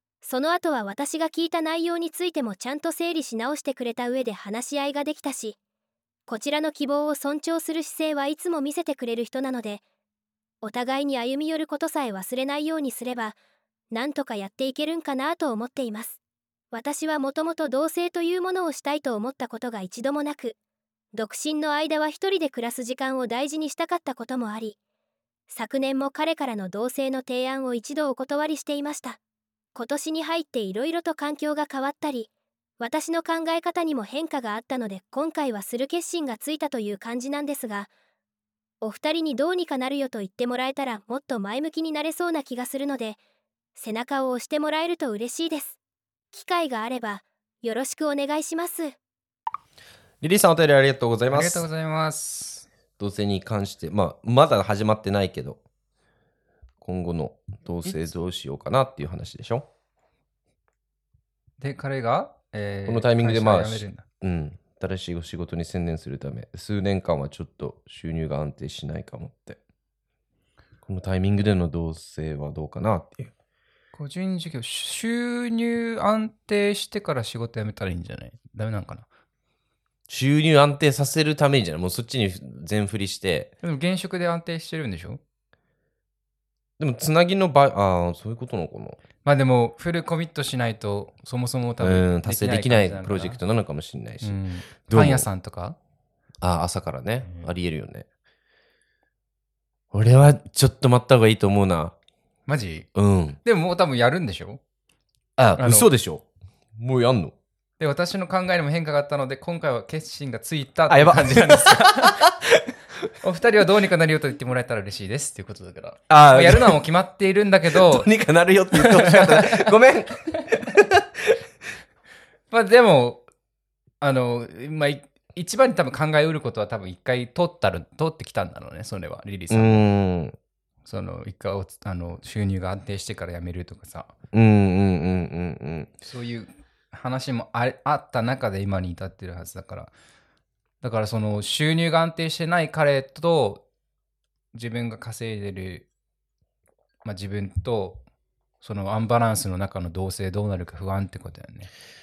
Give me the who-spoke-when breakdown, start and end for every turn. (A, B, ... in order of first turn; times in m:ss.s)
0:00.2-0:05.6 A
0:06.3-0:09.8 A
0:10.6-0:13.4 A
0:13.9-0:16.2 A
0:16.7-0:20.6 A
0:21.1-0:24.8 A
0:25.5-0:29.2 A
0:29.8-0:32.3 A
0:32.8-0:37.9 A
0:38.8-0:43.2 A
0:43.8-0:45.8 A
0:46.3-0:49.0 A
0:50.2-0:51.7 B
0:51.3-0:52.7 C
0:53.0-0:55.6 B
0:56.8-0:59.7 B
1:01.6-1:04.0 C
1:02.9-1:09.6 B
1:10.8-1:13.3 B
1:13.9-1:19.1 C
1:20.1-1:23.5 B
1:23.6-1:25.2 C
1:26.8-1:29.0 B
1:29.2-1:33.4 C
1:31.8-1:35.3 B
1:34.2-1:35.8 C
1:36.4-1:38.1 B
1:37.2-1:37.5 C
1:39.9-1:41.9 B
1:42.5-1:42.9 C
1:43.0-1:43.4 B
1:43.4-1:44.6 C
1:45.4-1:46.2 B
1:45.6-1:45.9 C
1:46.8-1:47.4 B
1:47.8-1:52.3 C
1:50.9-1:52.7 B
1:53.2-1:58.1 C
1:56.1-1:56.8 B
1:57.7-2:01.4 B
1:58.7-1:59.7 C
2:02.5-2:03.2 C
2:04.0-2:09.9 C
2:09.5-2:10.4 B
2:10.9-2:14.1 C
2:14.3-2:15.9 B
2:16.0-2:19.9 C
2:20.8-2:23.6 C
2:24.5-2:25.9 C
2:27.0-2:28.0 C
2:28.6-2:31.7 C